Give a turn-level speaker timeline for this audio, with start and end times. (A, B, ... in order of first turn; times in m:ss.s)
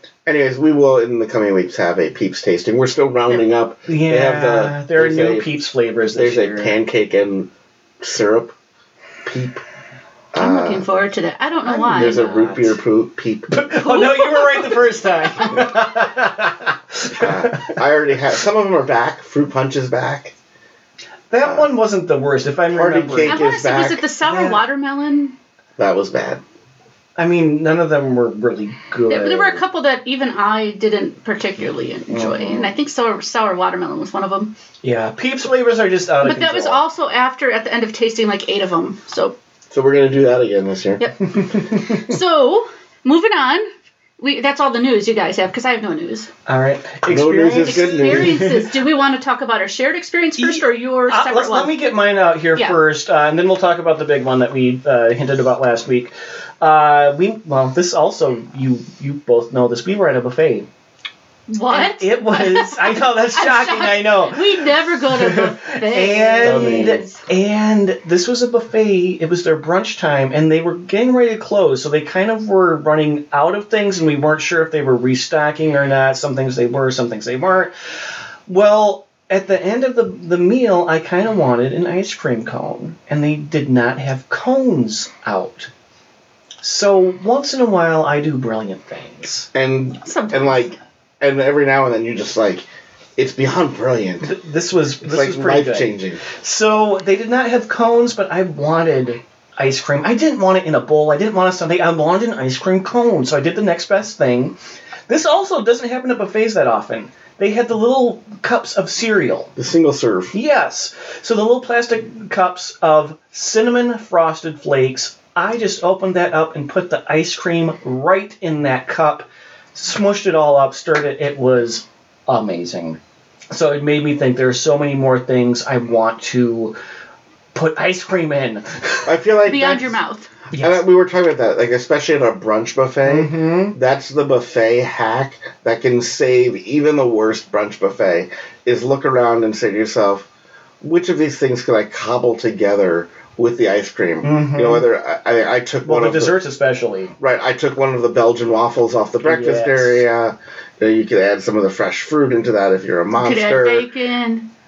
0:00.2-0:05.5 A
0:03.9-0:06.7 B
0:06.1-0:07.5 A
0:08.0-0:08.5 A
0:09.2-0:09.6 A
0:10.3-0:10.8 A
0:10.4-0:12.2 C
0:11.6-0:12.8 B
0:11.9-0:13.7 A
0:13.5-0:17.8 B
0:13.8-0:15.5 C
0:17.2-0:20.3 A
0:21.3-0:23.4 B
0:22.7-0:24.0 A
0:23.3-0:25.3 C
0:24.2-0:24.6 B
0:25.8-0:26.4 A
0:27.2-0:29.6 B
0:29.1-0:34.5 C
0:32.1-0:32.7 B
0:34.8-0:36.8 B
0:36.2-0:39.4 C
0:39.7-0:41.0 A
0:41.0-0:43.7 C
0:41.2-0:42.1 B
0:44.2-0:46.3 C
0:46.5-0:48.7 B
0:47.1-0:48.5 A
0:47.5-0:51.8 C
0:50.4-1:00.7 B
1:01.5-1:07.2 C
1:01.7-1:17.7 B
1:06.4-1:07.0 A
1:18.5-1:25.7 B
1:26.6-1:29.5 B
1:29.5-1:34.3 A
1:30.0-1:30.8 C
1:34.2-1:44.5 B
1:35.0-1:36.2 A
1:45.1-1:49.5 B
1:49.6-1:50.3 A
1:50.3-2:03.0 B
2:03.5-2:06.8 B
2:07.5-2:09.1 B
2:09.0-2:10.0 A
2:09.4-2:10.3 C
2:10.5-2:10.8 B
2:10.6-2:20.3 A
2:13.0-2:13.8 B
2:20.8-2:26.4 A
2:24.2-2:24.8 B
2:25.8-2:27.1 B
2:27.2-2:33.9 A
2:29.2-2:30.0 B
2:33.2-2:34.4 C